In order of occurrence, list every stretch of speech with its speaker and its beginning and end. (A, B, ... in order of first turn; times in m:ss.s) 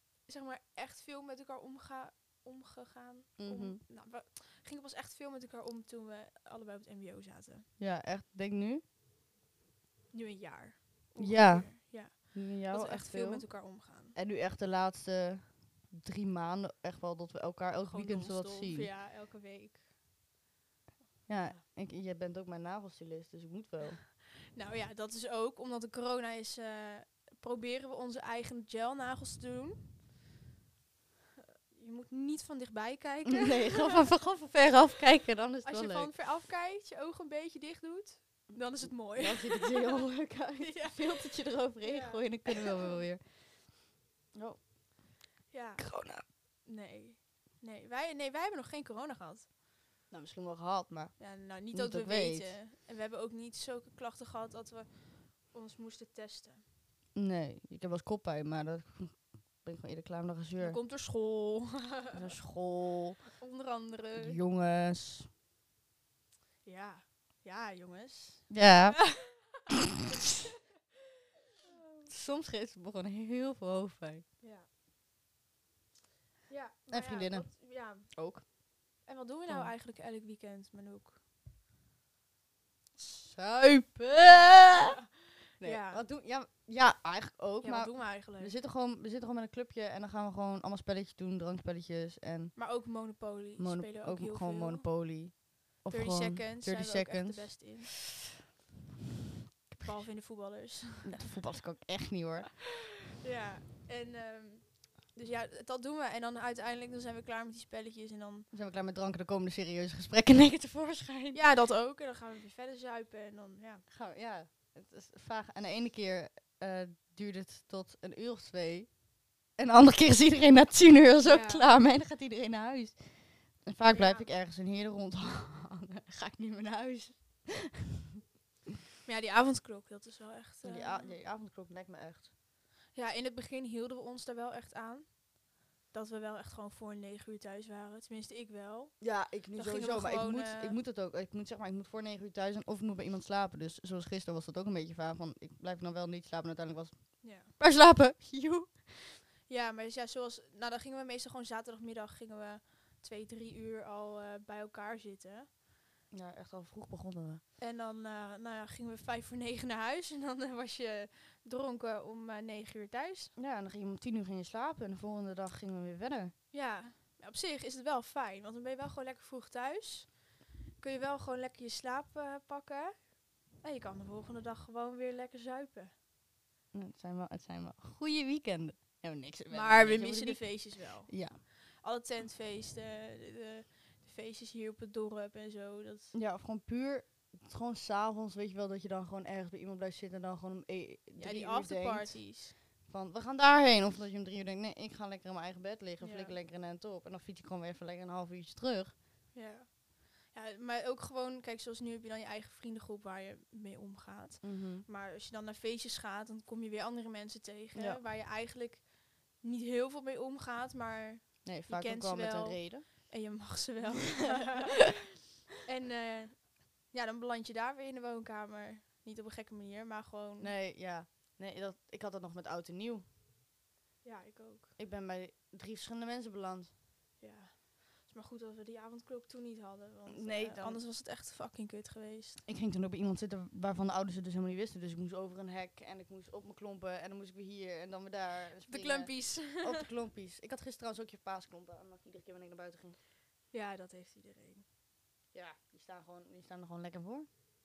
0:00.2-0:07.7 A
0:03.4-0:03.8 B
0:07.8-0:08.8 B
0:10.1-0:14.2 A
0:11.2-0:13.5 B
0:14.1-0:18.9 B
0:17.9-0:19.8 A
0:21.3-0:24.0 B
0:24.5-0:29.9 A
0:31.7-0:34.2 A
0:33.3-0:36.1 B
0:35.6-0:40.1 A
0:38.8-0:43.2 B
0:40.6-0:43.0 A
0:44.3-0:44.6 B
0:45.5-0:45.9 A
0:45.8-0:46.2 B
0:46.7-0:49.5 A
0:50.1-0:52.5 B
0:51.2-0:56.6 A
0:57.2-1:00.8 B
1:00.6-1:02.2 A
1:02.1-1:03.2 B
1:03.3-1:04.4 A
1:04.2-1:05.3 B
1:06.6-1:09.5 A
1:08.5-1:09.1 B
1:10.0-1:10.5 A
1:11.7-1:12.1 A
1:12.1-1:14.2 B
1:14.4-1:14.7 A
1:16.5-1:18.1 A
1:16.9-1:18.4 B
1:19.1-1:21.2 A
1:19.5-1:19.7 B
1:23.0-1:25.0 B
1:25.6-1:32.5 B
1:25.6-1:26.0 A
1:27.6-1:28.5 A
1:32.5-1:34.8 A
1:33.6-1:38.1 B
1:35.9-1:38.0 A
1:39.7-1:40.0 B
1:39.8-1:41.3 A
1:41.0-1:42.6 B
1:43.2-1:48.5 A
1:48.5-1:51.4 B
1:51.3-1:53.8 A
1:53.9-1:58.9 B
1:59.6-2:07.9 B
2:01.2-2:01.7 A
2:03.9-2:04.3 A
2:09.0-2:11.2 A
2:10.6-2:12.3 B
2:13.0-2:15.2 A
2:15.9-2:19.0 A
2:19.0-2:29.2 B
2:19.5-2:20.8 A
2:27.2-2:27.5 A
2:29.5-2:35.5 A
2:36.1-2:37.4 B
2:37.6-2:43.3 A
2:43.4-2:46.3 B
2:46.5-2:50.2 A
2:50.8-2:55.9 A
2:56.7-3:01.4 B
2:59.5-3:06.1 A
3:06.1-3:12.3 B
3:11.2-3:12.6 A
3:12.8-3:18.9 B
3:16.0-3:16.4 A
3:19.3-3:35.0 A
3:24.4-3:24.8 B
3:27.8-3:28.0 B
3:31.4-3:32.8 B
3:34.3-3:34.6 B
3:35.6-3:40.5 A
3:40.4-3:43.0 B
3:44.0-3:44.7 A
3:44.8-3:46.7 B
3:47.2-3:52.4 A
3:50.1-3:50.8 B
3:52.5-4:03.0 B
3:58.6-3:59.9 A
4:03.5-4:04.6 A
4:05.3-4:07.3 B